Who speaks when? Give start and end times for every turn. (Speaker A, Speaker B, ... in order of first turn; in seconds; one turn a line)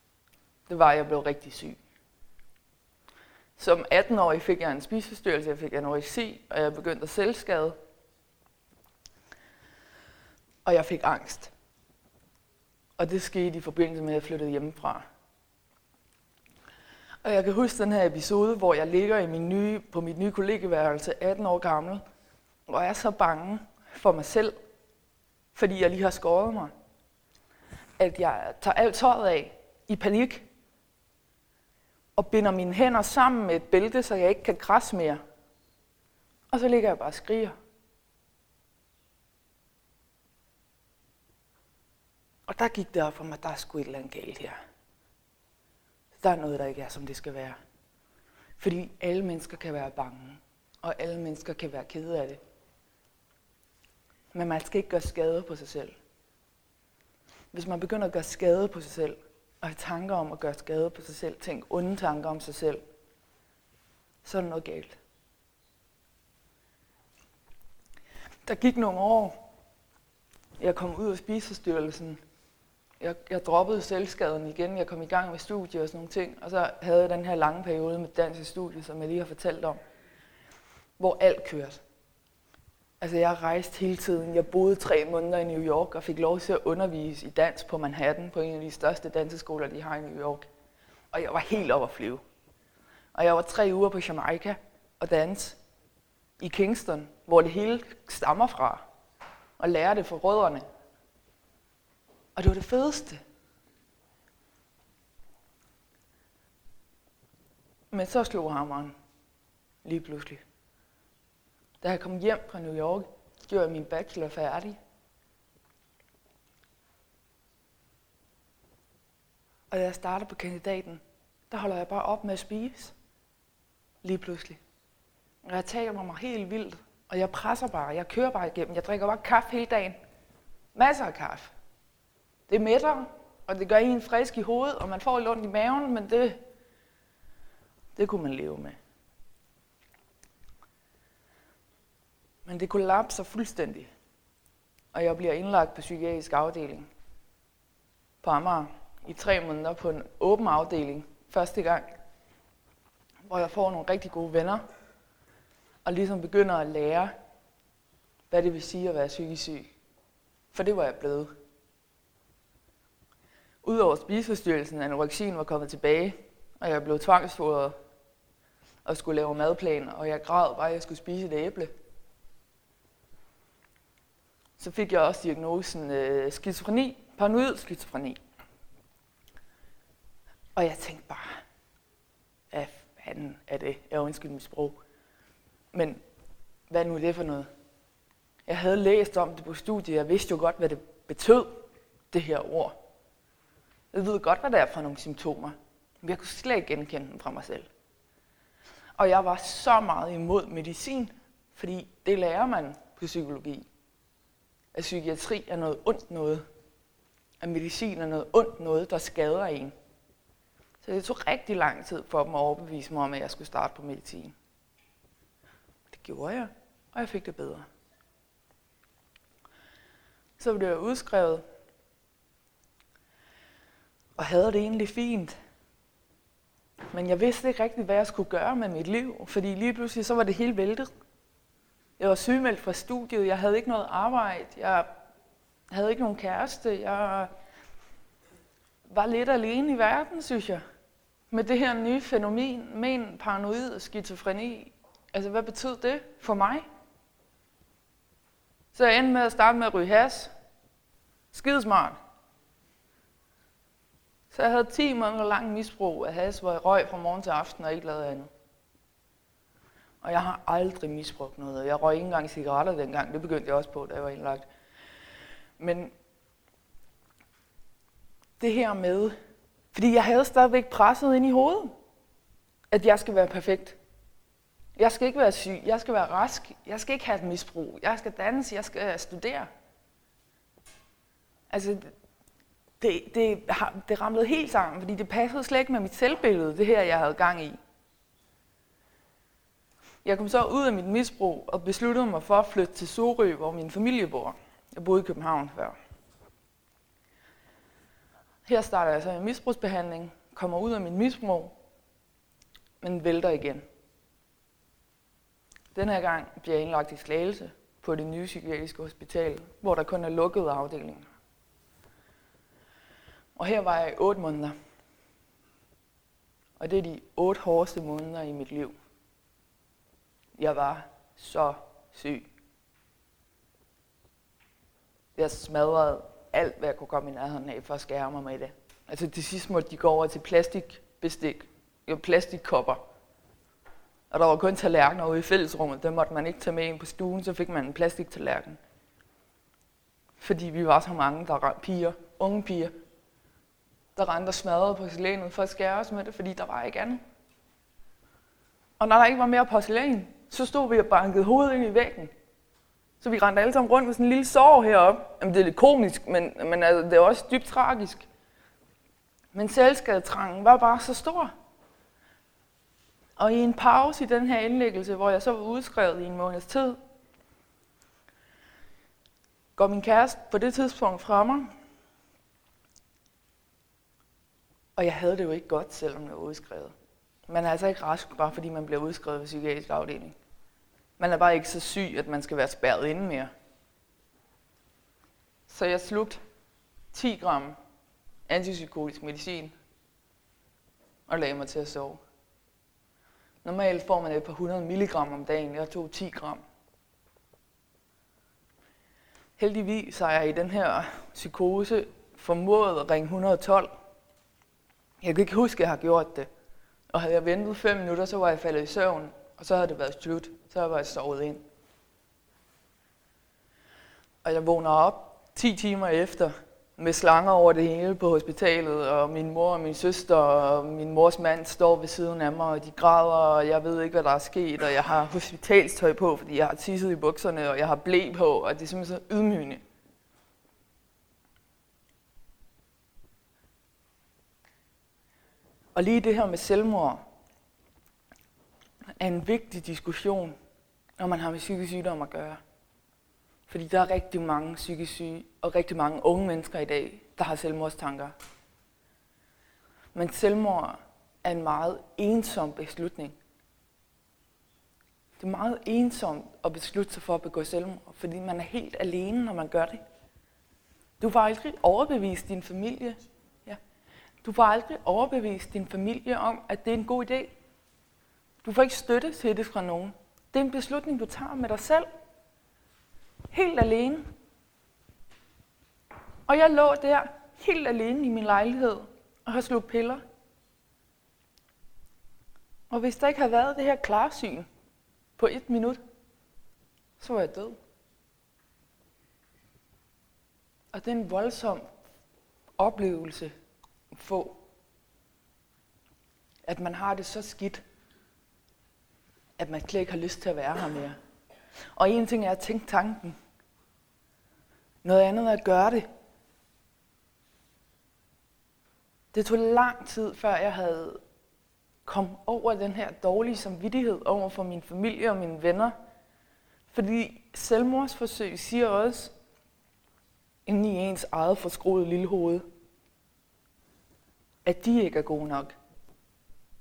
Speaker A: 0.7-1.8
Speaker A: 3.6-7.8
Speaker A: 10.6-11.5
Speaker A: 13.0-15.0
Speaker A: 17.2-22.0
Speaker A: 22.7-24.5
Speaker A: 25.5-26.7
Speaker A: 28.0-30.5
Speaker A: 32.1-35.2
Speaker A: 36.5-37.5
Speaker A: 42.5-44.6
Speaker A: 46.2-47.6
Speaker A: 48.6-52.4
Speaker A: 54.3-55.9
Speaker A: 57.5-62.8
Speaker A: 64.2-65.0
Speaker A: 68.4-69.4
Speaker A: 70.6-72.2
Speaker A: 73.0-79.8
Speaker A: 81.0-81.8
Speaker A: 83.0-90.5
Speaker A: 91.1-92.2
Speaker A: 93.1-95.6
Speaker A: 96.4-98.8
Speaker A: 99.6-100.6
Speaker A: 102.3-103.2
Speaker A: 107.9-108.9
Speaker A: 109.8-110.4
Speaker A: 111.8-114.8
Speaker A: 119.7-122.9
Speaker A: 124.0-124.6
Speaker A: 125.4-130.0
Speaker A: 130.7-131.5
Speaker A: 132.5-136.4
Speaker A: 137.9-138.8
Speaker A: 142.4-143.9
Speaker A: 144.9-146.9
Speaker A: 148.2-151.8
Speaker A: 153.3-154.6
Speaker A: 155.8-157.1
Speaker A: 158.3-159.7
Speaker A: 160.5-161.3
Speaker A: 163.6-167.8
Speaker A: 168.8-171.7
Speaker A: 174.6-178.2
Speaker A: 180.6-181.4
Speaker A: 182.5-184.8
Speaker A: 185.7-186.0
Speaker A: 186.7-187.5
Speaker A: 188.4-192.8
Speaker A: 193.9-197.7
Speaker A: 199.0-203.6
Speaker A: 204.7-206.4
Speaker A: 207.4-209.7
Speaker A: 210.8-214.3
Speaker A: 215.9-217.6
Speaker A: 220.4-221.4
Speaker A: 224.2-225.3
Speaker A: 226.9-230.9
Speaker A: 232.0-234.9
Speaker A: 235.7-237.3
Speaker A: 238.9-240.6
Speaker A: 241.3-246.6
Speaker A: 248.7-250.3
Speaker A: 251.3-252.0
Speaker A: 254.3-258.3
Speaker A: 260.0-264.4
Speaker A: 265.6-265.9
Speaker A: 268.4-269.1
Speaker A: 269.7-271.7
Speaker A: 272.7-273.8
Speaker A: 274.8-279.5
Speaker A: 281.5-281.9
Speaker A: 282.8-287.6
Speaker A: 290.0-295.8
Speaker A: 298.4-301.6
Speaker A: 302.8-303.6
Speaker A: 305.7-311.1
Speaker A: 313.4-314.5
Speaker A: 316.6-318.7
Speaker A: 320.4-322.2
Speaker A: 325.1-332.8
Speaker A: 334.1-338.6
Speaker A: 340.2-342.7
Speaker A: 343.9-347.0
Speaker A: 348.8-352.1
Speaker A: 353.0-358.1
Speaker A: 359.3-361.3
Speaker A: 363.2-366.8
Speaker A: 369.6-371.5
Speaker A: 374.8-376.7
Speaker A: 377.3-380.1
Speaker A: 381.0-383.3
Speaker A: 385.5-386.2
Speaker A: 386.9-387.6
Speaker A: 388.3-389.5
Speaker A: 391.1-392.0
Speaker A: 393.4-396.4
Speaker A: 399.4-403.7
Speaker A: 405.0-406.3
Speaker A: 406.9-411.4
Speaker A: 414.2-429.6
Speaker A: 435.7-437.0
Speaker A: 439.0-440.4
Speaker A: 441.0-442.4
Speaker A: 443.5-448.1
Speaker A: 449.9-453.1
Speaker A: 455.2-459.8
Speaker A: 461.0-463.6
Speaker A: 464.2-467.3
Speaker A: 468.4-471.9
Speaker A: 473.3-474.1
Speaker A: 476.3-480.0
Speaker A: 482.7-484.5
Speaker A: 485.2-485.8
Speaker A: 487.0-487.6
Speaker A: 490.7-491.7
Speaker A: 492.6-493.3
Speaker A: 493.9-494.4
Speaker A: 496.4-497.6
Speaker A: 499.4-501.0
Speaker A: 501.8-503.1
Speaker A: 504.8-505.9
Speaker A: 509.1-511.0
Speaker A: 511.9-515.7
Speaker A: 516.7-519.1
Speaker A: 520.5-522.4
Speaker A: 524.4-525.5